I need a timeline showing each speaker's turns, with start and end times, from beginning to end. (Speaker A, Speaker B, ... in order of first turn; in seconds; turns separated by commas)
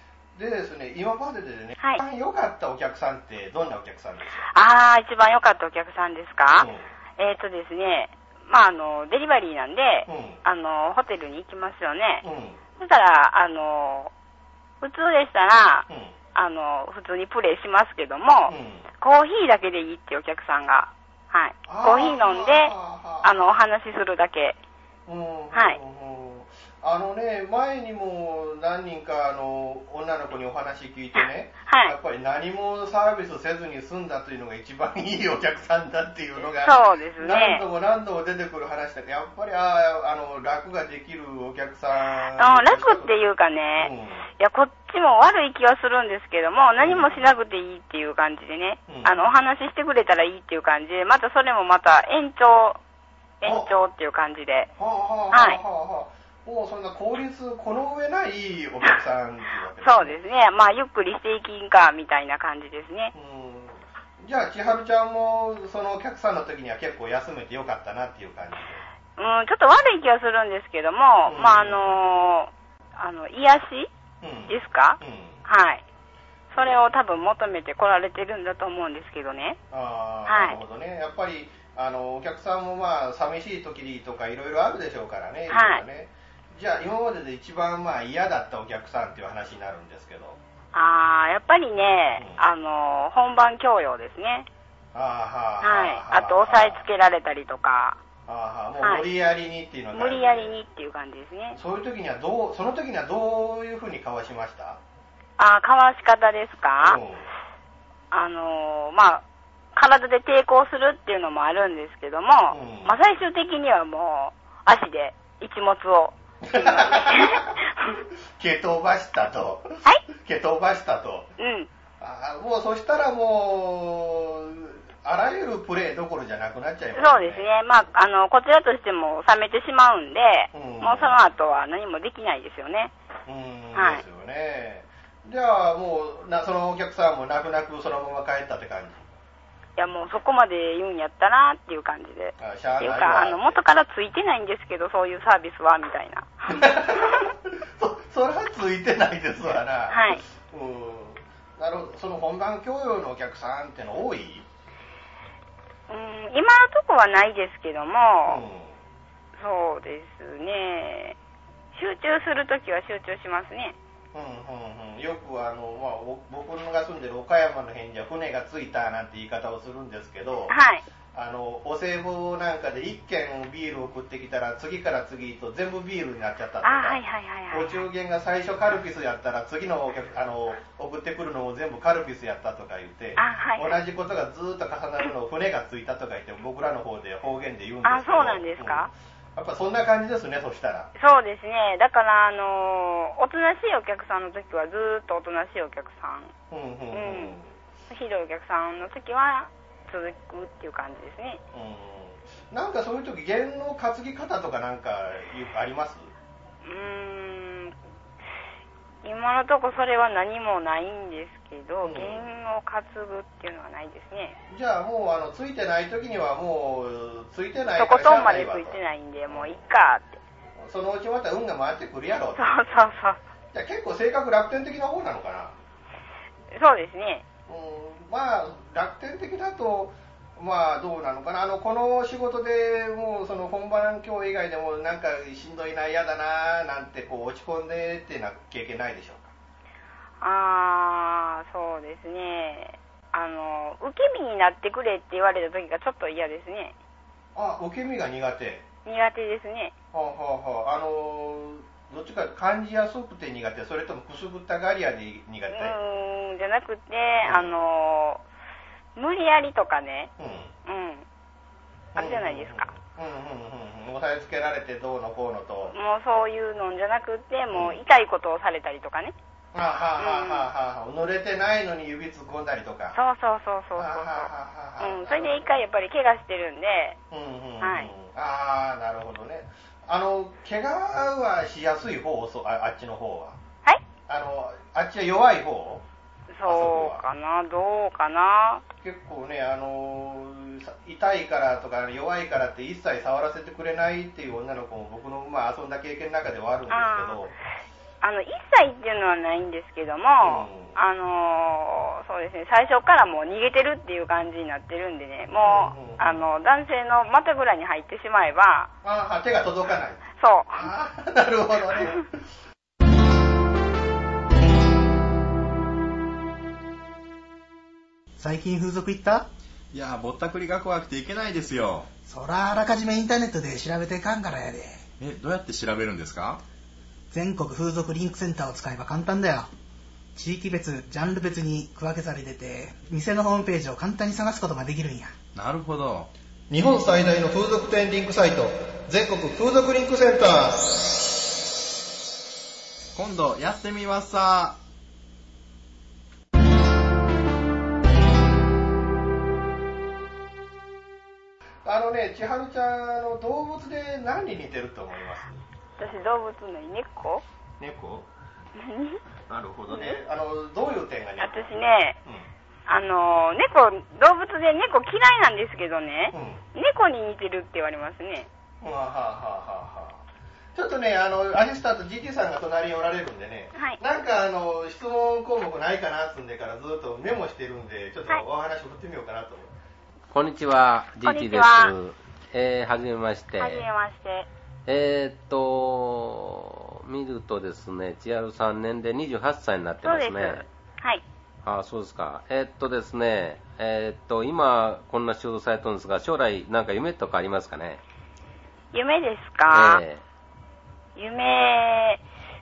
Speaker A: 0.4-4.5, Speaker B: 4.5-12.2, Speaker A: 6.6-6.9, Speaker A: 10.1-10.4, Speaker A: 12.2-12.6, Speaker B: 12.8-14.1, Speaker B: 14.8-24.6, Speaker A: 15.9-16.1, Speaker A: 18.5-18.9, Speaker A: 21.7-23.6, Speaker A: 25.1-43.1, Speaker B: 25.5-25.8, Speaker B: 31.2-31.9, Speaker B: 36.6-37.6, Speaker B: 42.4-52.8, Speaker A: 43.8-44.3, Speaker A: 46.8-47.3, Speaker A: 48.9-49.3, Speaker B: 53.4-54.7, Speaker A: 53.4-53.7, Speaker A: 54.8-60.2, Speaker B: 55.3-55.6, Speaker B: 59.8-63.1, Speaker A: 63.1-68.8, Speaker B: 69.2-73.9, Speaker A: 71.3-72.0, Speaker A: 74.2-75.4, Speaker B: 74.5-75.8, Speaker B: 76.5-79.6, Speaker A: 79.7-90.4, Speaker B: 80.3-80.6, Speaker B: 85.5-85.8, Speaker B: 90.7-94.5, Speaker A: 94.9-96.8, Speaker B: 95.6-98.0, Speaker A: 98.3-100.6, Speaker B: 99.9-101.6, Speaker A: 101.6-104.8, Speaker B: 105.4-107.0, Speaker A: 106.8-107.3, Speaker B: 108.1-118.0, Speaker A: 112.5-113.0, Speaker A: 116.4-117.6, Speaker A: 118.4-121.3, Speaker B: 121.4-121.7, Speaker A: 122.0-127.5, Speaker B: 127.0-132.9, Speaker A: 130.5-131.2, Speaker A: 133.3-139.1, Speaker B: 133.8-134.0, Speaker B: 139.8-147.3, Speaker A: 142.4-143.6, Speaker A: 146.5-154.5, Speaker B: 149.9-150.2, Speaker B: 155.9-158.4, Speaker A: 158.3-158.8, Speaker B: 159.4-161.2, Speaker B: 161.8-163.8, Speaker A: 164.1-170.6, Speaker B: 170.5-170.8, Speaker A: 171.1-190.9, Speaker B: 176.6-177.8, Speaker B: 183.2-183.8, Speaker B: 187.8-188.9, Speaker B: 191.0-196.3, Speaker A: 196.5-197.5, Speaker B: 196.9-197.4, Speaker B: 197.9-201.4, Speaker A: 201.5-206.1, Speaker B: 206.6-207.8, Speaker B: 209.0-214.4, Speaker A: 211.8-212.3, Speaker A: 214.5-219.6, Speaker B: 217.8-220.2, Speaker A: 220.6-222.5, Speaker B: 222.4-223.2, Speaker A: 223.5-225.6, Speaker B: 226.5-227.2, Speaker A: 227.5-239.3, Speaker B: 240.2-246.8, Speaker A: 247.3-248.7, Speaker B: 248.8-249.7, Speaker A: 249.9-255.8, Speaker B: 255.5-258.2, Speaker A: 257.2-257.6, Speaker B: 259.0-260.1, Speaker A: 260.2-260.5, Speaker B: 260.7-261.1, Speaker A: 261.9-265.8, Speaker B: 262.0-262.7, Speaker B: 265.7-269.1, Speaker A: 267.5-267.8, Speaker A: 269.5-273.0, Speaker B: 270.0-270.4, Speaker B: 272.9-277.0, Speaker A: 273.8-275.6, Speaker A: 277.1-283.4, Speaker B: 277.6-277.9, Speaker A: 284.1-285.9, Speaker B: 286.3-288.6, Speaker A: 286.4-287.0, Speaker A: 288.8-297.4, Speaker B: 296.7-297.2, Speaker B: 298.0-308.7, Speaker A: 300.2-300.8, Speaker A: 305.4-306.2, Speaker A: 308.8-312.1, Speaker B: 310.2-310.7, Speaker C: 318.2-319.3, Speaker D: 319.7-321.9, Speaker C: 322.1-324.8, Speaker D: 325.0-326.4, Speaker C: 327.1-329.5, Speaker C: 330.2-335.1, Speaker D: 335.4-336.1, Speaker A: 336.5-341.0, Speaker D: 342.9-344.6, Speaker A: 351.6-355.4, Speaker B: 355.8-357.2, Speaker A: 357.6-358.1, Speaker B: 358.6-359.0, Speaker A: 359.3-361.5, Speaker B: 359.7-360.0, Speaker B: 361.2-362.0, Speaker B: 362.7-368.3, Speaker A: 366.1-366.4, Speaker A: 368.6-370.0, Speaker A: 370.6-379.5, Speaker B: 373.6-373.8, Speaker E: 380.1-383.7, Speaker B: 381.1-381.7, Speaker B: 383.4-384.3, Speaker E: 384.7-390.4, Speaker B: 389.8-391.0, Speaker E: 391.4-397.8, Speaker B: 398.7-399.8, Speaker E: 399.5-400.0, Speaker B: 401.0-402.0